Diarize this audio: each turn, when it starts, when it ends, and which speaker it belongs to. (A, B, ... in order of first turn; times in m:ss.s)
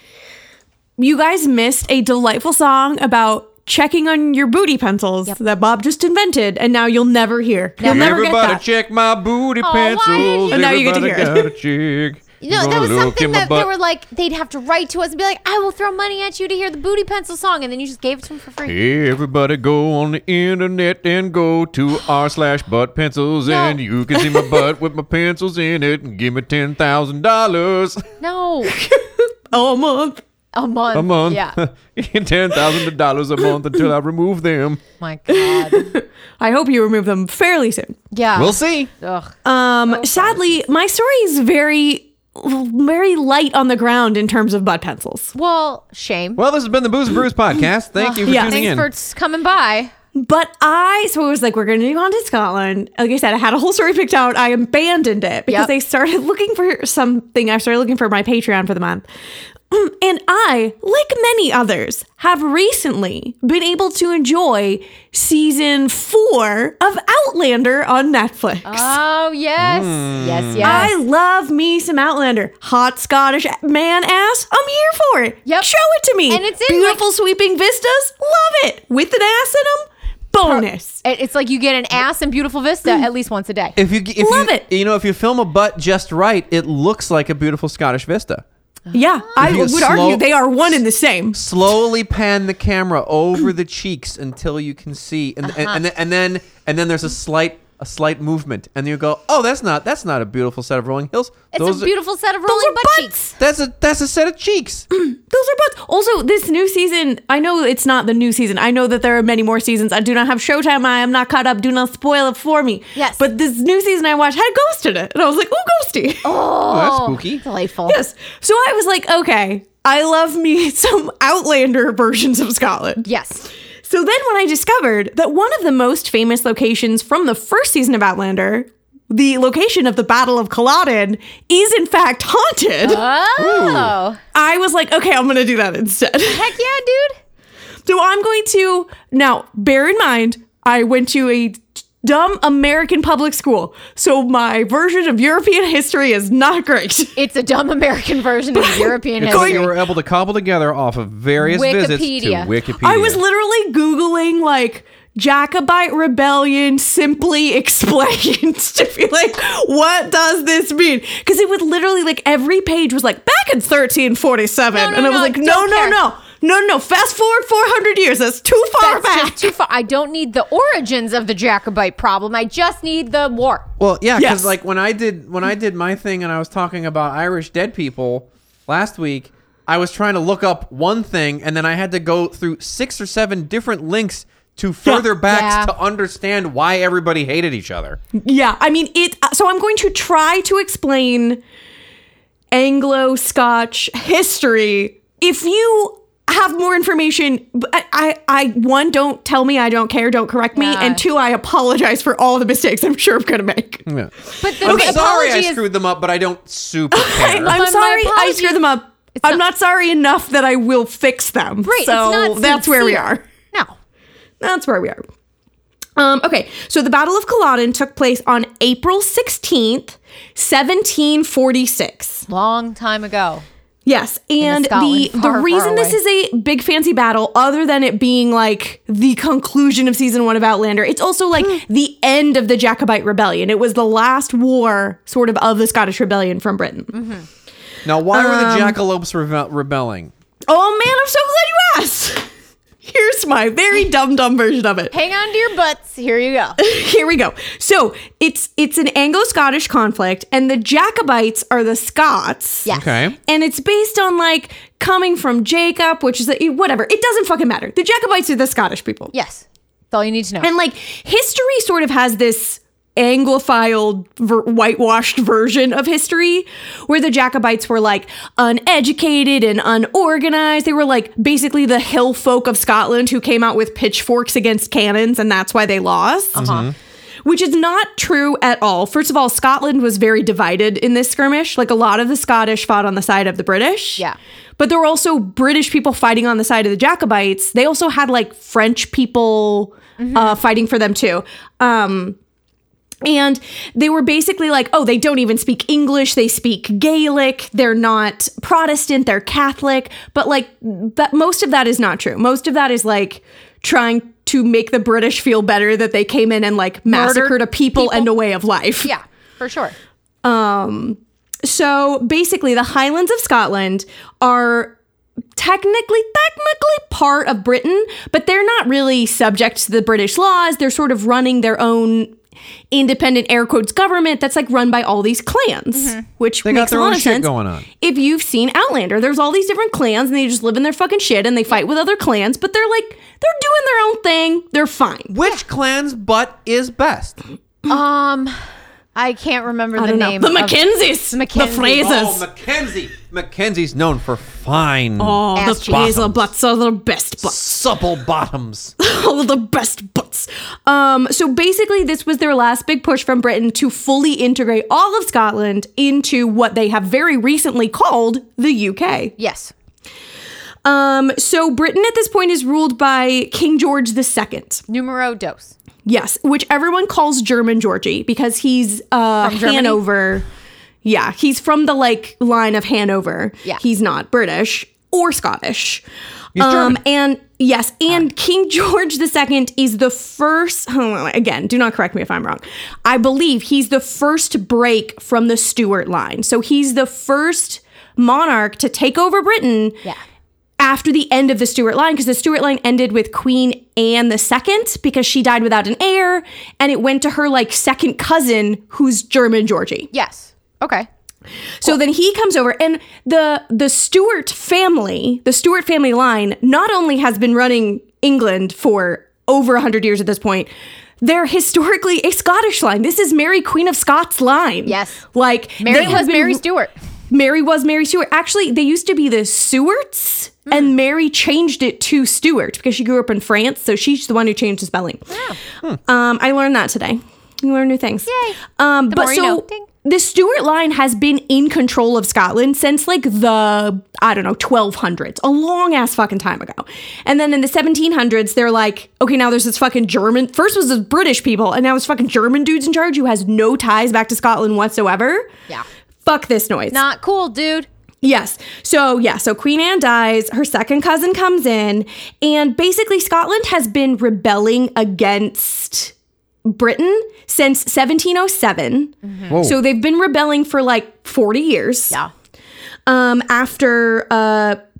0:01.0-0:08.6 A
0:07.8-0:08.6 B
0:07.8-0:13.7 C
0:09.6-0:10.6 B
0:10.1-0:11.5 A
0:12.4-0:18.8 B
0:18.6-0:28.0 C
0:23.5-0:23.8 B
0:24.2-0:24.5 A
0:28.2-0:28.8 B
0:28.7-0:30.2 A
0:30.5-0:31.6 B
0:30.9-0:34.8 C
0:35.0-0:35.9 B
0:35.3-0:38.0 A
0:38.1-0:39.3 B
0:38.4-0:38.9 C
0:39.4-0:45.3 A
0:39.9-0:40.4 B
0:45.3-0:46.4 B
0:46.4-0:48.9 C
0:48.0-0:49.9 B
0:48.3-0:48.6 A
0:50.1-0:59.0 A
0:59.7-1:09.0 A
1:08.6-1:10.9 B
1:09.6-1:10.9 C
1:10.6-1:21.0 A
1:16.3-1:17.0 B
1:20.4-1:23.8 B
1:23.8-1:28.4 C
1:24.2-1:24.6 A
1:28.9-1:29.3 B
1:28.9-1:31.4 A
1:29.4-1:30.2 C
1:31.3-1:41.9 C
1:35.4-1:35.8 B
1:41.5-1:43.3 B
1:42.5-1:43.3 A
1:43.4-1:44.9 C
1:44.9-1:56.2 A
1:52.9-1:53.2 B
1:56.2-1:58.0 B
1:56.6-1:57.4 C
1:57.9-2:03.1 A
2:03.0-2:03.5 B
2:03.9-2:13.0 A
2:12.8-2:14.2 B
2:13.4-2:13.9 C
2:14.3-2:16.5 A
2:16.2-2:17.2 B
2:17.8-2:27.2 A
2:27.2-2:29.7 B
2:28.5-2:28.9 A
2:29.2-2:33.2 C
2:31.4-2:32.5 B
2:32.8-2:49.5 A
2:44.7-2:46.0 B
2:48.8-2:53.7 B
2:53.8-3:08.0 C
2:54.2-2:54.5 A
3:05.3-3:05.7 B
3:08.1-3:11.4 A
3:12.5-3:23.8 A
3:20.5-3:21.0 B
3:23.8-3:27.6 C
3:24.4-3:25.6 B
3:24.6-3:25.0 A
3:26.9-3:33.2 A
3:27.4-3:28.6 B
3:31.6-3:33.7 B
3:34.4-3:35.0 A
3:36.0-3:42.2 A
3:42.3-3:43.4 B
3:43.8-3:56.9 A
3:44.4-3:46.0 B
3:56.9-3:57.2 B
3:57.8-4:00.1 C
3:58.1-3:58.8 A
4:00.5-4:02.3 A
4:02.8-4:04.9 A
4:04.9-4:06.6 B
4:06.6-4:12.7 A
4:12.6-4:12.9 B
4:12.7-4:13.2 C
4:13.2-4:19.1 A
4:19.1-4:20.5 B
4:20.4-4:36.5 A
4:36.4-4:36.7 B
4:36.4-4:36.7 C
4:37.2-4:44.0 A
4:44.6-4:52.2 A
4:50.0-4:50.4 B
4:53.0-5:08.9 A
5:06.9-5:08.1 B
5:08.8-5:09.7 B
5:10.2-5:14.8 A
5:15.4-5:22.1 A
5:22.7-5:27.3 A
5:25.7-5:26.1 B
5:26.4-5:27.6 C
5:27.8-5:35.1 A
5:35.1-5:37.2 C
5:37.7-5:38.4 B
5:38.9-5:41.9 B
5:39.8-5:42.2 A
5:41.7-5:46.3 C
5:45.0-5:47.4 A
5:45.3-5:46.0 B
5:47.2-5:48.7 C
5:48.8-5:59.1 A
5:59.2-5:59.5 B
6:00.6-6:04.6 A
6:04.7-6:05.5 B
6:05.8-6:10.2 A
6:09.2-6:09.8 B
6:10.8-6:15.8 A
6:16.4-6:16.8 C
6:16.4-6:29.8 A
6:30.6-6:39.9 A
6:39.9-6:40.9 B
6:41.6-6:50.5 A
6:51.0-6:56.4 A
6:54.6-6:55.0 B
6:55.6-6:56.7 B
6:57.1-7:05.1 A
7:05.1-7:05.4 B
7:05.9-7:25.3 A
7:08.0-7:09.6 B
7:26.0-7:26.8 A
7:26.7-7:27.7 B
7:28.0-7:35.9 A
7:36.4-7:42.0 A
7:39.0-7:39.3 B
7:39.3-7:39.6 C
7:42.9-7:44.6 A